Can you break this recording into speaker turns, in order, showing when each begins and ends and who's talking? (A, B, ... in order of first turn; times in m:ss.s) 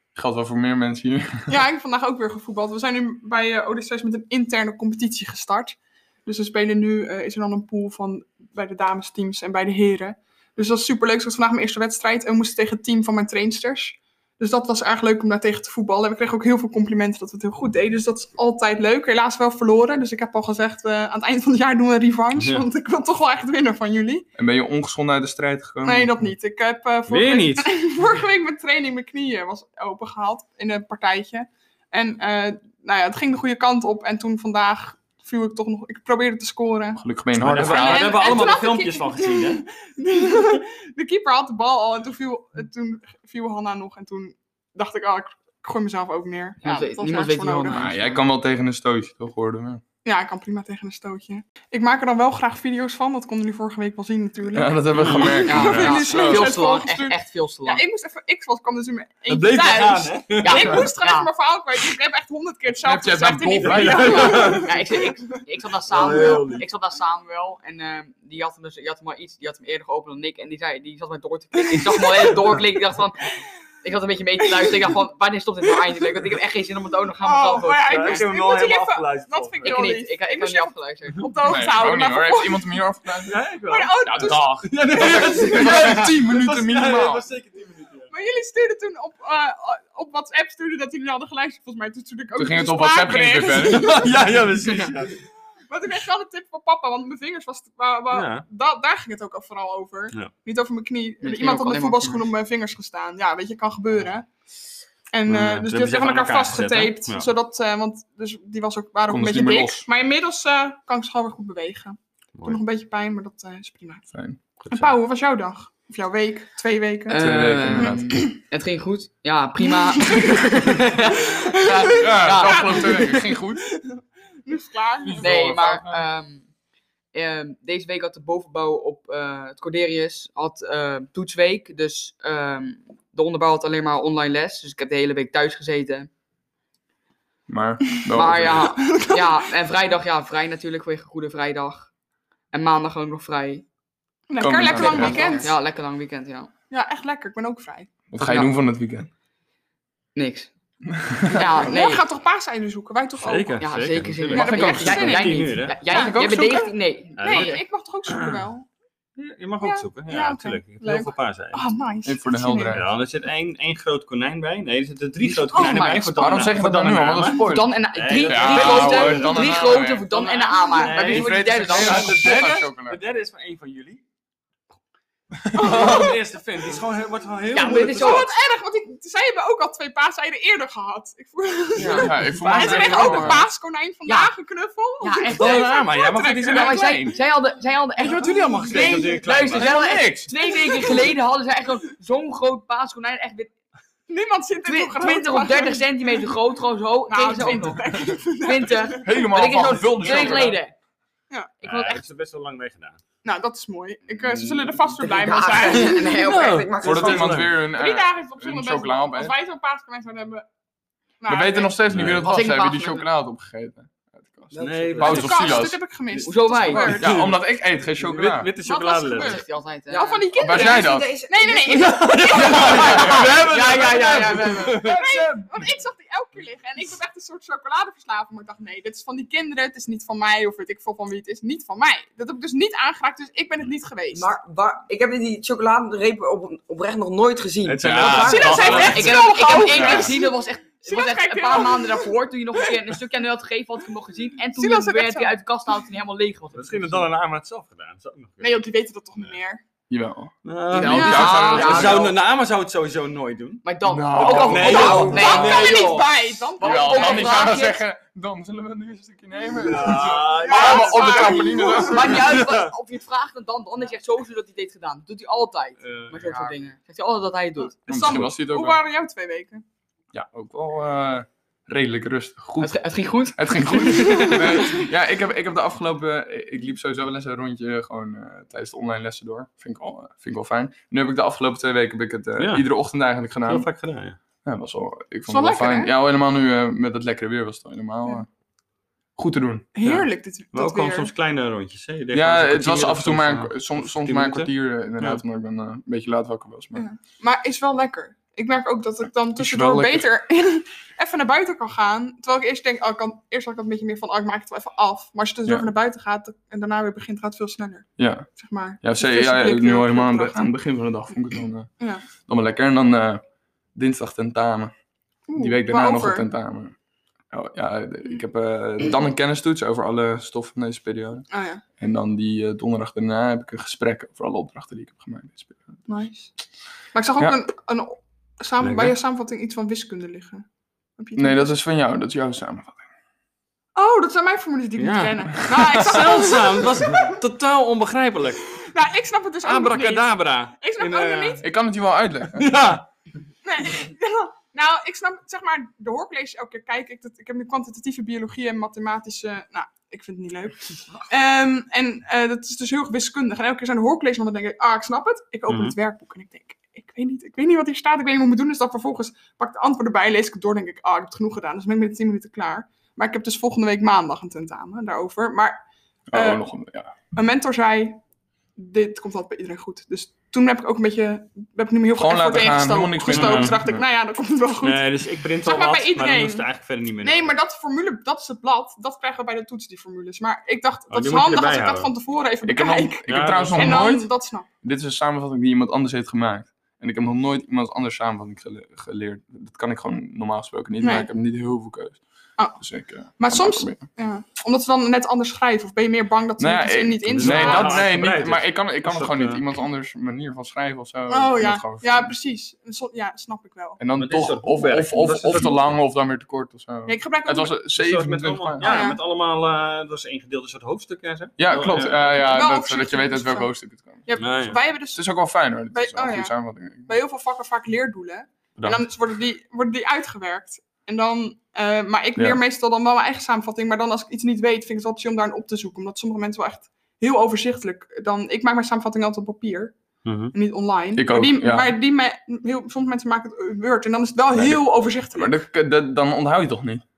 0:00.2-0:01.5 A
0:01.5-0:24.3 B
0:22.4-0:22.6 C
0:24.4-0:26.2 A
0:25.8-0:37.0 B
0:27.1-0:27.7 C
0:37.0-0:38.2 A
0:37.4-0:39.7 C
0:37.6-0:47.9 B
0:46.6-0:48.2 D
0:47.7-0:49.8 A
0:50.0-1:05.4 B
0:54.5-0:56.6 A
0:54.9-0:55.5 C
0:55.4-0:57.8 D
0:59.3-1:00.8 C
1:00.4-1:01.3 D
1:02.8-1:04.6 A
1:03.5-1:04.7 C
1:04.6-1:13.3 D
1:05.9-1:06.7 C
1:06.0-1:06.6 B
1:11.6-1:12.6 B
1:13.8-1:18.3 D
1:14.4-1:14.8 B
1:17.2-1:22.8 B
1:17.9-1:19.8 C
1:19.6-1:21.3 D
1:21.4-1:23.4 A
1:23.3-1:28.1 C
1:23.7-1:25.5 B
1:24.0-1:27.3 A
1:28.1-1:34.2 B
1:32.4-1:33.9 A
1:33.6-1:35.2 C
1:35.7-1:44.3 B
1:38.1-1:38.5 C
1:41.2-1:42.3 D
1:45.1-1:54.1 B
1:45.3-1:47.3 C
1:49.1-1:49.9 A
1:52.4-1:52.6 C
1:54.1-1:54.4 A
1:54.6-1:54.9 C
1:54.7-1:58.2 B
1:57.1-2:03.1 D
1:57.2-1:58.2 A
1:59.7-2:00.4 B
2:01.4-2:05.6 B
2:02.0-2:03.6 A
2:05.0-2:06.0 A
2:05.2-2:06.5 D
2:07.1-2:16.1 D
2:17.5-2:18.7 A
2:18.2-2:21.9 D
2:18.8-2:19.4 B
2:22.5-2:23.7 D
2:24.3-2:25.6 B
2:24.4-2:25.4 A
2:24.6-2:26.5 D
2:25.0-2:25.4 E
2:26.7-2:27.9 B
2:28.1-2:29.1 A
2:28.2-2:28.5 E
2:30.2-2:30.5 D
2:31.0-2:31.5 A
2:31.3-2:32.0 D
2:31.4-2:33.6 B
2:33.2-2:36.1 C
2:33.6-2:37.6 D
2:34.3-2:35.2 A
2:34.3-2:38.7 B
2:37.2-2:38.4 C
2:39.2-2:41.6 C
2:39.6-2:42.8 B
2:42.0-2:42.9 A
2:42.7-2:54.0 C
2:45.5-2:46.5 D
2:46.2-2:47.7 A
2:47.4-2:52.3 D
2:48.2-2:50.1 A
2:50.6-2:51.1 B
2:51.0-2:53.0 A
2:55.5-2:55.8 A
2:55.5-2:56.2 B
2:55.5-2:58.3 C
2:57.5-2:58.3 D
2:57.8-3:07.2 B
3:01.8-3:02.1 E
3:01.9-3:03.5 A
3:02.4-3:03.4 C
3:02.6-3:03.3 D
3:04.0-3:04.3 D
3:05.0-3:05.7 D
3:05.4-3:06.6 C
3:05.4-3:07.2 A
3:06.4-3:13.5 D
3:08.0-3:09.8 C
3:08.7-3:09.2 B
3:09.5-3:10.3 A
3:10.5-3:11.0 B
3:14.1-3:16.3 B
3:14.6-3:20.7 D
3:17.1-3:20.5 B
3:19.0-3:20.6 A
3:21.6-3:22.0 D
3:21.6-3:23.0 C
3:23.2-3:26.3 B
3:24.2-3:27.5 E
3:26.1-3:27.6 C
3:26.8-3:29.4 A
3:27.6-3:30.5 B
3:31.2-3:32.1 B
3:31.3-3:35.8 A
3:31.9-3:32.3 C
3:32.0-3:33.1 D
3:34.5-3:35.5 E
3:34.6-3:35.6 C
3:35.1-3:37.3 B
3:36.2-3:37.0 D
3:36.8-3:39.4 C
3:36.9-3:38.5 A
3:38.6-3:43.3 B
3:39.1-3:40.3 D
3:39.9-3:42.0 E
3:40.4-3:41.2 A
3:41.7-3:45.2 C
3:42.4-3:43.3 A
3:42.5-3:45.0 D
3:44.8-3:54.3 B
3:54.1-3:58.6 E
3:57.6-3:59.4 C
3:57.8-3:59.0 A
3:58.0-4:02.2 B
3:58.5-4:07.1 D
3:59.7-4:00.1 A
4:04.5-4:05.3 B
4:06.6-4:08.6 C
4:08.4-4:09.6 B
4:09.9-4:12.1 A
4:10.4-4:16.3 C
4:10.7-4:12.1 D
4:10.8-4:11.7 B
4:11.5-4:12.1 E
4:13.6-4:16.0 D
4:13.8-4:15.3 A
4:14.5-4:17.7 B
4:14.7-4:15.2 E
4:16.6-4:17.8 D
4:16.6-4:22.3 A
4:19.6-4:21.5 C
4:20.0-4:22.1 B
4:21.7-4:27.8 D
4:22.1-4:22.7 C
4:25.8-4:26.3 C
4:26.3-4:26.6 E
4:27.9-4:29.6 B
4:27.9-4:28.8 A
4:30.1-4:43.7 A
4:32.6-4:34.8 D
4:34.2-4:34.6 B
4:42.4-4:42.7 C
4:43.5-4:44.2 C
4:44.4-4:48.3 A
4:45.3-4:45.9 B
4:49.2-4:49.7 A
4:49.7-4:51.1 B
4:49.8-4:55.2 C
4:52.1-4:56.8 A
4:56.8-5:10.5 B
4:59.4-5:00.1 A
5:08.0-5:13.2 A
5:11.8-5:12.1 B
5:13.7-5:14.7 A
5:15.3-5:16.3 B
5:15.4-5:16.7 A
5:17.3-5:21.3 A
5:21.3-5:21.6 B
5:21.8-5:25.8 A
5:25.9-5:26.3 B
5:26.9-5:30.5 B
5:28.6-5:29.0 C
5:31.0-5:31.5 B
5:31.2-5:32.8 A
5:33.8-5:37.2 B
5:34.8-5:38.6 C
5:38.6-5:41.4 B
5:39.4-5:41.4 C
5:41.4-5:42.5 A
5:42.3-5:42.8 C
5:43.4-6:06.4 B
5:55.5-5:55.8 C
6:06.1-6:06.9 A
6:07.1-6:08.0 B
6:08.6-6:16.5 B
6:12.0-6:13.8 A
6:13.1-6:13.6 C
6:14.6-6:17.3 C
6:17.0-6:24.5 B
6:20.9-6:21.9 C
6:22.4-6:33.9 A
6:23.1-6:23.9 C
6:30.8-6:31.1 B
6:33.2-6:37.9 B
6:36.4-6:42.1 A
6:37.2-6:39.4 C
6:41.1-6:43.8 B
6:43.8-6:48.9 A
6:43.9-6:45.7 C
6:46.9-6:47.6 B
6:47.7-6:52.2 C
6:48.6-6:49.0 B
6:51.4-6:54.1 A
6:52.1-6:53.5 B
6:54.1-6:56.4 B
6:54.2-6:54.6 C
6:54.8-6:57.0 A
6:56.9-7:09.8 B
7:10.0-7:10.3 C
7:10.3-7:15.3 B
7:11.0-7:11.8 A
7:14.4-7:14.6 A
7:15.1-7:16.8 A